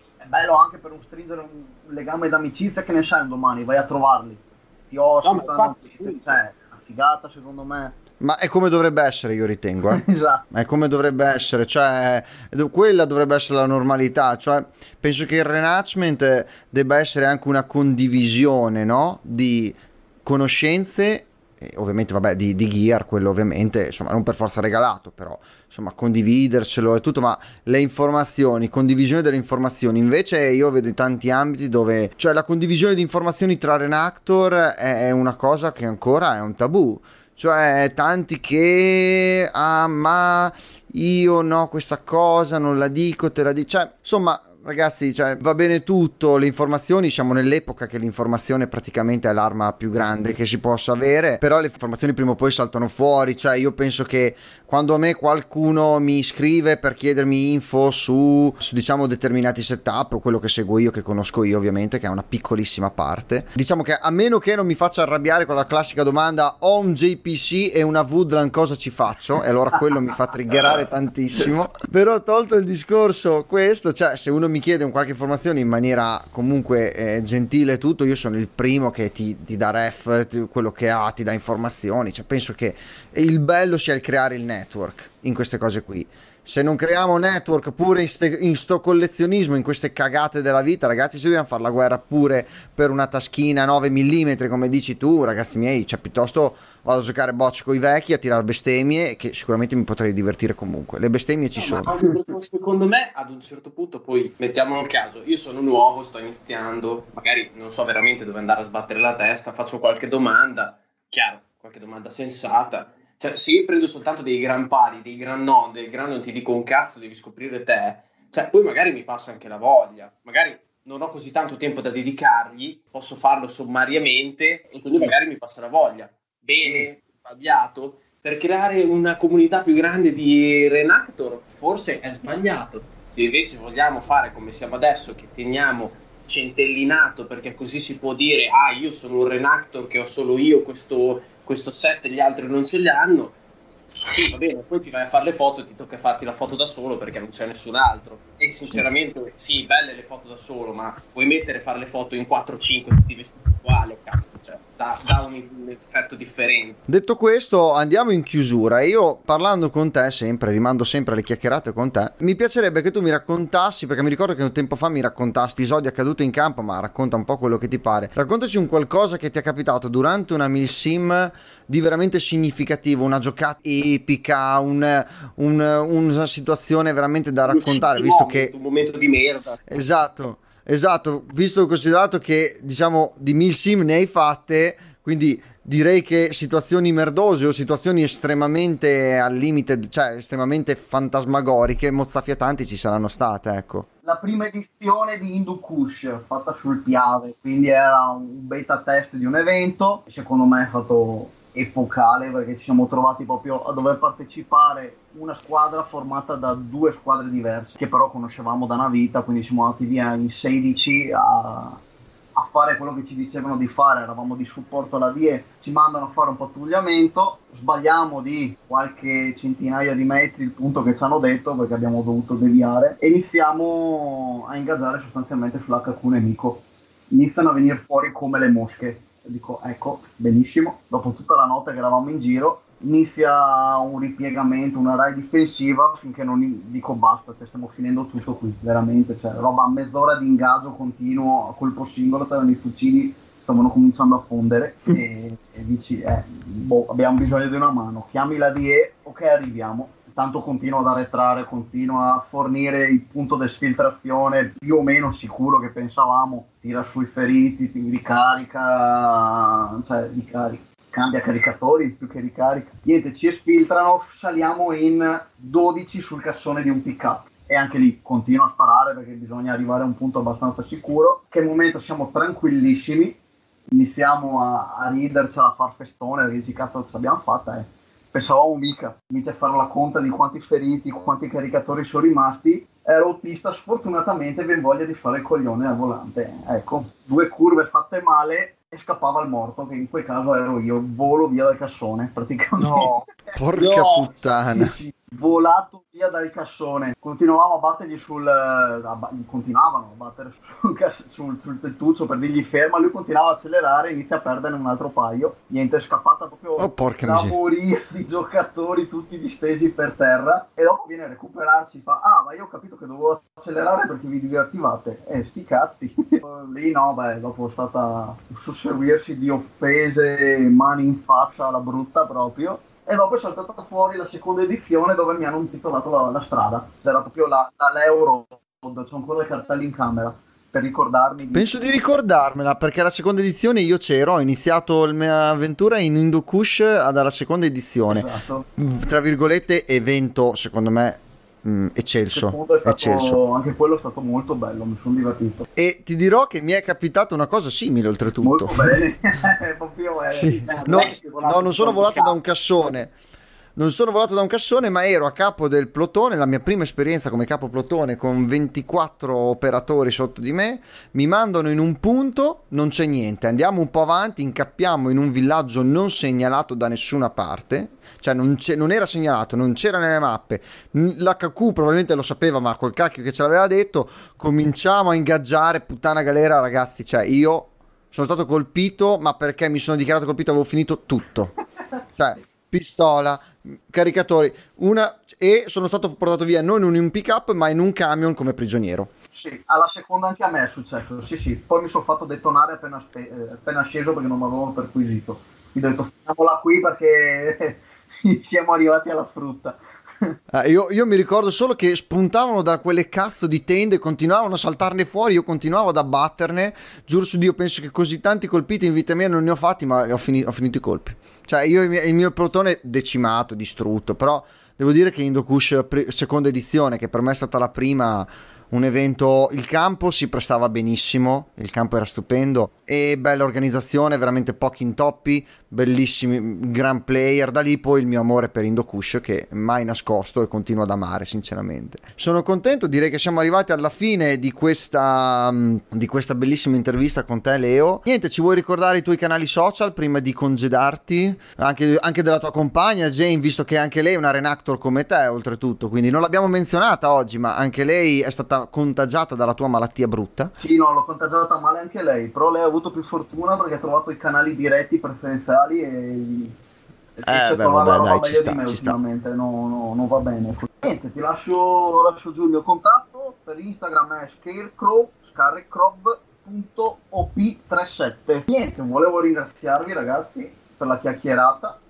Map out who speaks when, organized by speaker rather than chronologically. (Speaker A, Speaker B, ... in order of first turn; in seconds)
Speaker A: 0.2-8.0, 9.9-10.4, 194.0-211.8, 212.4-273.2, 273.7-293.4, 294.4-331.6, 337.9-338.5, 342.1-345.5, 348.2-350.5, 389.1-400.2, 450.4-456.4, 457.0-471.6
Speaker B: 5.2-6.4, 101.6-143.4, 144.0-156.8, 177.4-179.6, 292.6-294.1, 350.5-352.2
Speaker C: 8.2-101.9, 156.9-178.5, 179.7-193.9, 293.4-294.8, 306.6-307.4, 331.3-343.2, 345.6-348.8, 350.1-352.9, 353.6-381.3, 382.0-388.9, 400.3-450.3, 457.1-458.8